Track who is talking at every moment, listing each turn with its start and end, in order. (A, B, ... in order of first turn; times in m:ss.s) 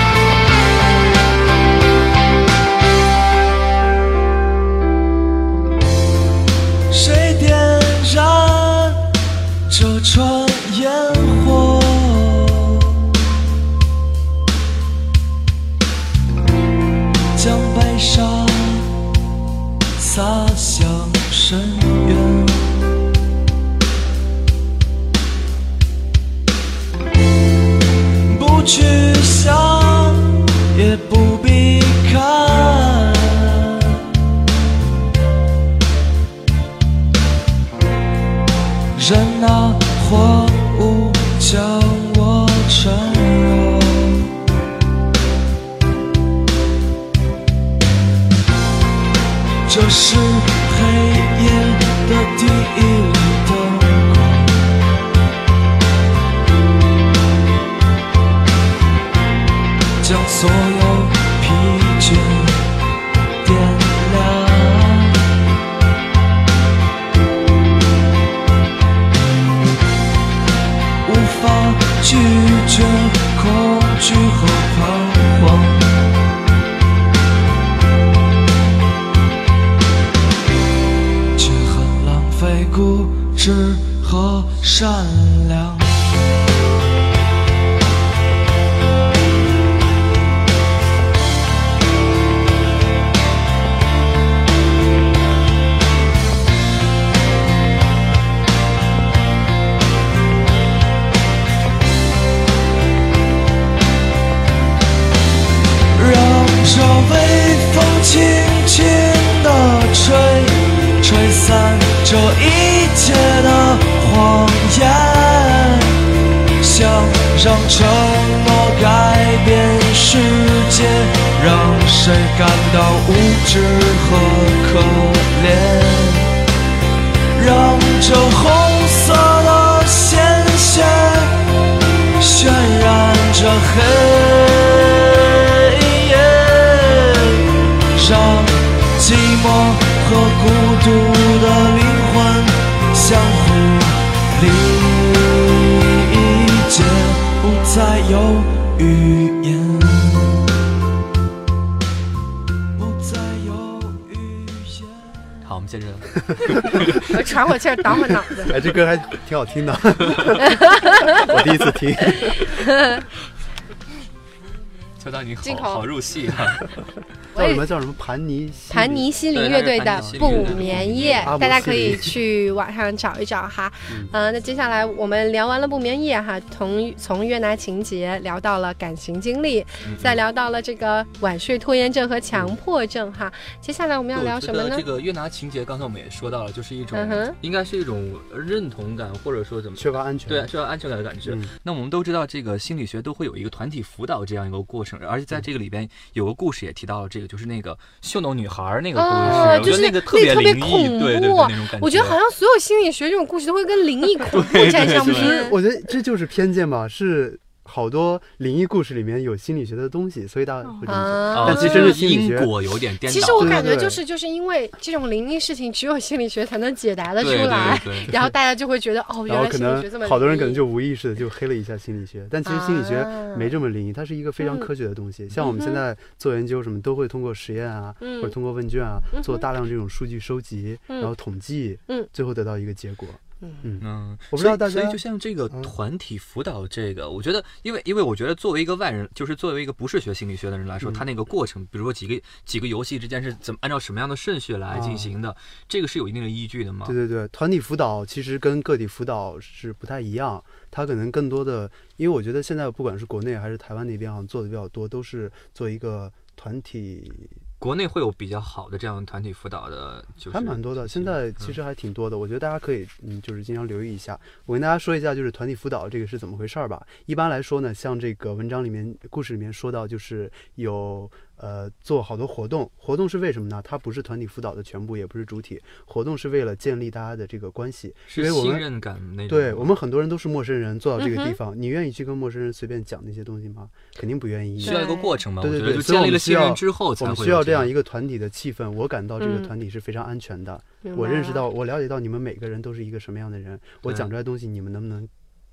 0:06.9-0:09.1 A
0:09.7-0:13.0 A
0:17.3-0:19.0 A
0:20.0-0:22.8 A
0:28.3-0:34.0 A
0:39.0-0:44.3 A
0:49.7-0:54.7 A
1:00.0-1:02.6 A
1:03.4-1:05.2 A
1:11.0-1:16.0 A
1:21.4-1:26.0 A
1:46.0-1:56.0 A
1:56.6-2:06.3 A
2:07.4-2:11.4 A
2:12.2-2:30.5 A
2:32.8-2:35.4 A
2:35.4-2:37.0 B
2:36.3-2:36.8 C
2:37.0-2:38.6 D
2:38.5-2:42.5 C
2:40.4-2:41.3 D
2:42.0-2:43.0 D
2:45.0-2:46.8 B
2:45.4-2:45.9 D
2:47.4-2:47.6 D
2:47.4-2:49.1 C
2:48.7-3:04.8 D
2:49.3-2:52.0 B
2:50.1-2:52.2 C
2:59.8-3:00.2 B
3:04.1-3:22.2 B
3:06.9-3:07.4 D
3:09.8-3:10.5 C
3:11.2-3:11.5 C
3:19.0-3:25.6 D
3:19.2-3:19.9 C
3:24.3-3:25.4 B
3:24.8-3:32.5 C
3:30.9-3:32.1 D
3:31.3-3:33.6 B
3:33.1-3:40.6 D
3:33.2-3:34.0 C
3:37.2-3:38.1 B
3:39.3-3:55.0 C
3:42.5-3:43.5 D
3:44.4-3:44.7 D
3:45.4-3:45.8 D
3:48.0-3:48.4 D
3:49.1-3:49.5 D
3:53.8-4:07.0 B
4:04.7-4:05.1 C
4:06.8-4:17.4 C
4:17.6-4:21.5 B
4:20.3-4:38.7 C
4:38.1-4:39.8 B
4:39.3-4:55.1 C
4:41.0-4:41.4 D
4:44.6-4:45.2 D
4:44.6-4:47.7 B
4:49.2-4:49.5 D
4:50.8-4:51.4 D
4:53.8-4:54.1 B